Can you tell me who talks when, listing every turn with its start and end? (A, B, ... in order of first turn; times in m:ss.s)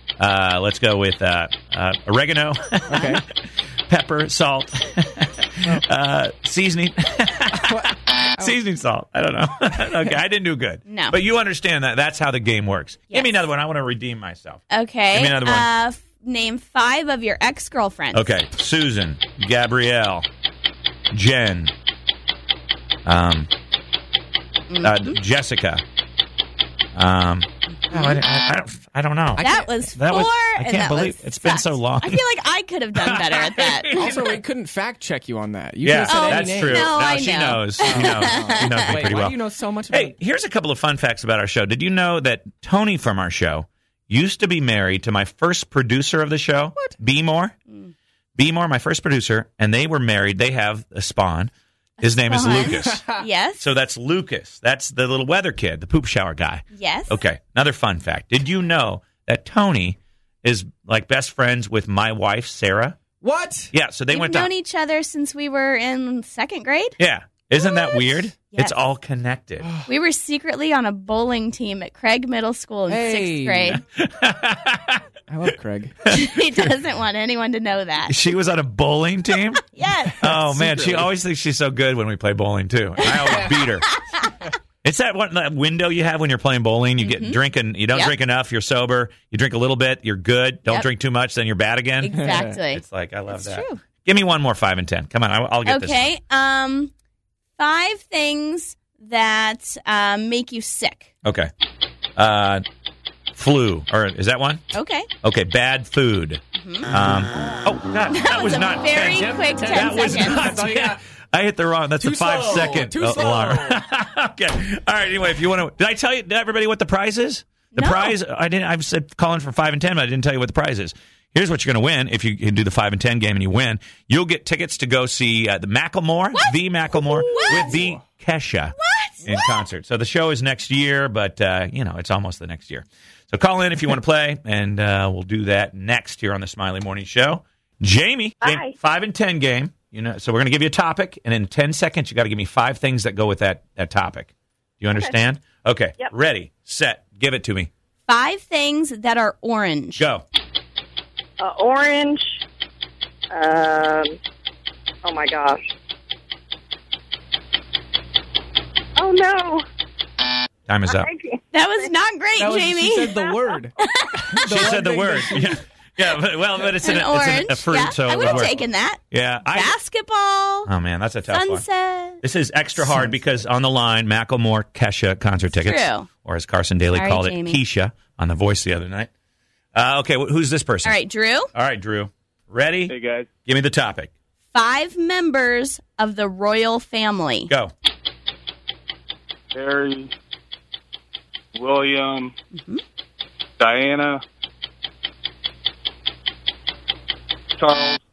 0:00.2-0:15.7 A
0:02.9-0:03.2 B
0:07.6-0:07.9 B
0:10.9-0:11.1 C
0:14.7-0:18.3 C
0:18.1-0:20.2 A
0:21.1-0:21.7 A
0:23.1-0:23.5 A
0:24.7-0:25.2 C
0:24.8-0:25.8 A
0:27.0-0:32.2 A
0:29.4-0:29.7 B
0:29.4-0:34.1 C
0:33.0-0:34.2 A
0:33.9-0:36.9 B
0:35.8-0:39.4 A
0:36.0-0:39.1 C
0:37.8-0:40.2 B
0:39.9-0:47.6 A
0:48.4-0:53.0 A
0:52.1-0:53.6 C
0:53.6-1:03.0 A
0:56.7-0:57.2 C
1:03.2-1:03.7 B
1:03.7-1:04.5 A
1:04.1-1:07.0 C
1:07.0-1:09.7 A
1:07.6-1:08.8 C
1:09.6-1:09.9 B
1:09.9-1:13.8 C
1:12.9-1:13.8 B
1:13.7-1:15.0 A
1:15.3-1:16.0 B
1:16.1-1:16.3 A
1:16.1-1:18.2 C
1:18.1-1:19.6 A
1:19.6-1:20.4 C
1:20.2-1:23.9 A
1:20.3-1:21.1 B
1:23.2-1:23.6 B
1:23.9-1:24.3 C
1:24.8-1:36.1 A
1:27.0-1:27.4 C
1:32.0-1:32.8 C
1:32.1-1:32.6 B
1:33.3-1:33.8 C
1:35.6-1:36.9 C
1:37.6-1:41.1 C
1:41.2-1:41.5 A
1:42.2-1:42.6 A
1:43.3-1:44.7 A
1:44.7-1:45.1 C
1:45.2-2:27.7 A
1:46.6-1:46.9 C
1:48.1-1:50.5 C
1:49.2-1:51.0 B
1:52.0-1:53.8 B
1:57.8-1:58.2 C
2:06.3-2:07.8 C
2:07.2-2:08.0 B
2:08.8-2:09.6 C
2:18.4-2:18.7 D
2:28.1-2:30.0 C
2:30.0-2:30.2 A
2:31.4-2:32.3 D
2:33.3-2:34.2 D
2:35.0-2:35.6 D
2:39.0-2:39.6 D
2:40.7-2:41.1 A
2:40.9-2:41.4 D
2:41.5-2:43.1 C
2:42.4-2:45.6 B
2:43.1-2:43.4 D
2:43.8-2:44.7 C
2:44.5-2:48.6 A
2:46.8-2:50.7 C
2:49.1-2:49.7 A
2:50.7-2:51.6 A
2:51.3-2:52.2 C
2:52.2-2:59.1 A
2:55.5-2:56.1 C
2:56.9-2:57.6 C
2:59.8-3:01.0 A
3:00.8-3:01.5 C
3:01.5-3:02.9 A
3:02.9-3:03.3 E
3:03.4-3:04.1 A
3:04.5-3:07.5 C
3:09.5-3:10.1 E
3:11.6-3:12.3 E
3:12.5-3:12.8 C
3:13.6-3:14.2 E
3:17.6-3:18.0 E